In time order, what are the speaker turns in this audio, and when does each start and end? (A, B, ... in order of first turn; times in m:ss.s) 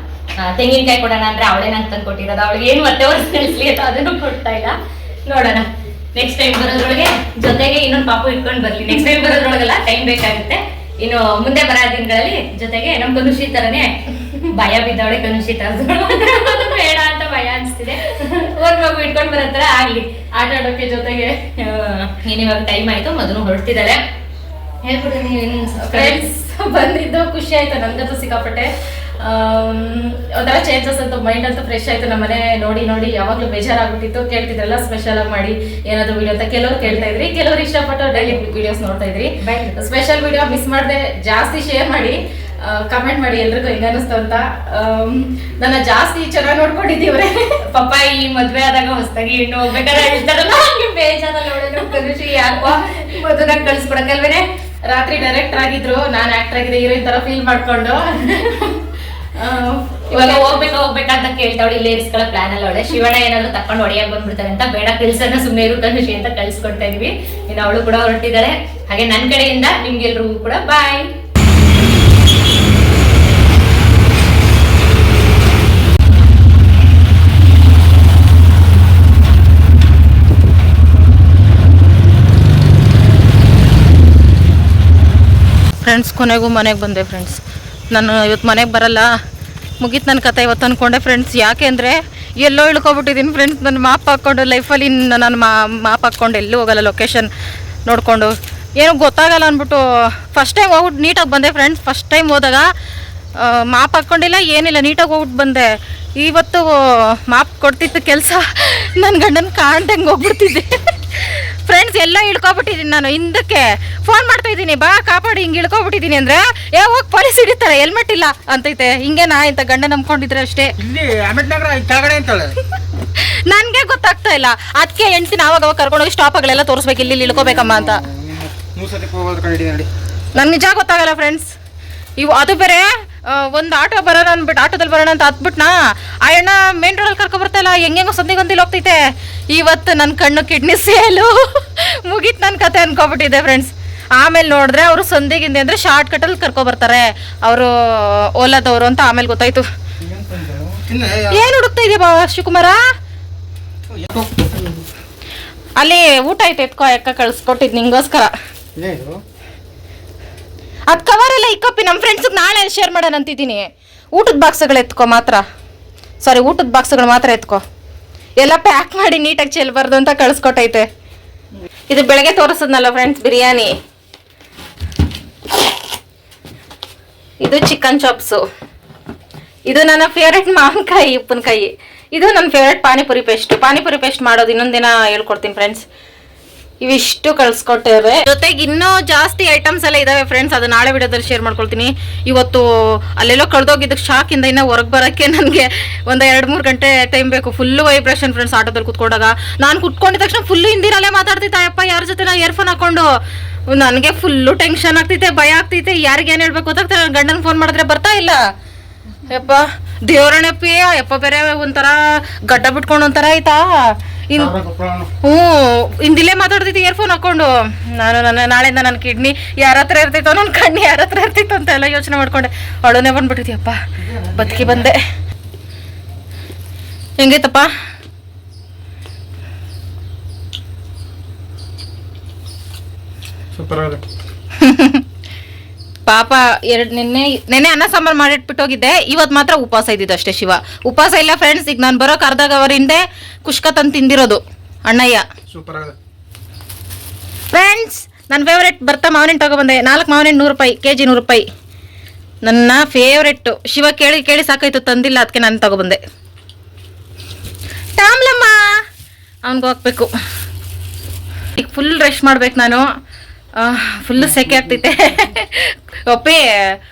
0:00.4-0:20.2 A
0:16.3-0:16.6 B
0:18.0-0:18.4 B
0:20.3-0:21.5 B
0:21.6-0:24.0 A
0:24.8-0:26.2 A
0:25.8-0:47.6 B
0:39.4-0:39.7 A
0:47.7-0:54.5 A
0:54.9-0:58.8 B
0:59.4-1:00.7 B
1:00.1-1:11.1 A
1:25.8-1:27.4 B
1:27.9-1:29.1 B
1:29.8-1:37.3 B
1:37.9-1:42.6 B
1:43.4-2:00.7 B
2:00.8-2:02.6 C
2:03.2-2:08.0 B
2:07.1-2:09.9 C
2:10.3-2:11.5 B
2:12.2-2:29.6 B
2:30.0-2:31.5 C
2:31.3-2:32.8 B
2:33.9-2:34.8 C
2:35.8-2:38.3 B
2:38.7-2:39.2 C
2:40.9-2:45.4 B
2:46.2-2:47.6 B
2:48.4-2:50.9 B
2:51.9-2:53.7 B
2:57.4-2:58.4 B
2:59.7-3:05.8 B
3:06.8-3:23.0 B
3:23.7-3:28.4 B
3:29.3-3:33.6 B
3:34.4-3:35.1 C
3:35.2-3:43.8 B
3:44.0-3:44.9 C
3:44.4-3:45.0 B
3:47.2-3:47.7 B
3:53.5-3:54.0 C
3:54.6-3:55.0 B
3:56.1-4:05.2 B
4:05.5-4:05.9 C
4:07.5-4:11.4 B
4:12.4-4:16.0 B
4:18.0-4:18.7 B
4:19.4-4:20.1 B
4:21.6-4:22.8 B
4:23.6-4:26.5 B
4:24.2-4:24.6 C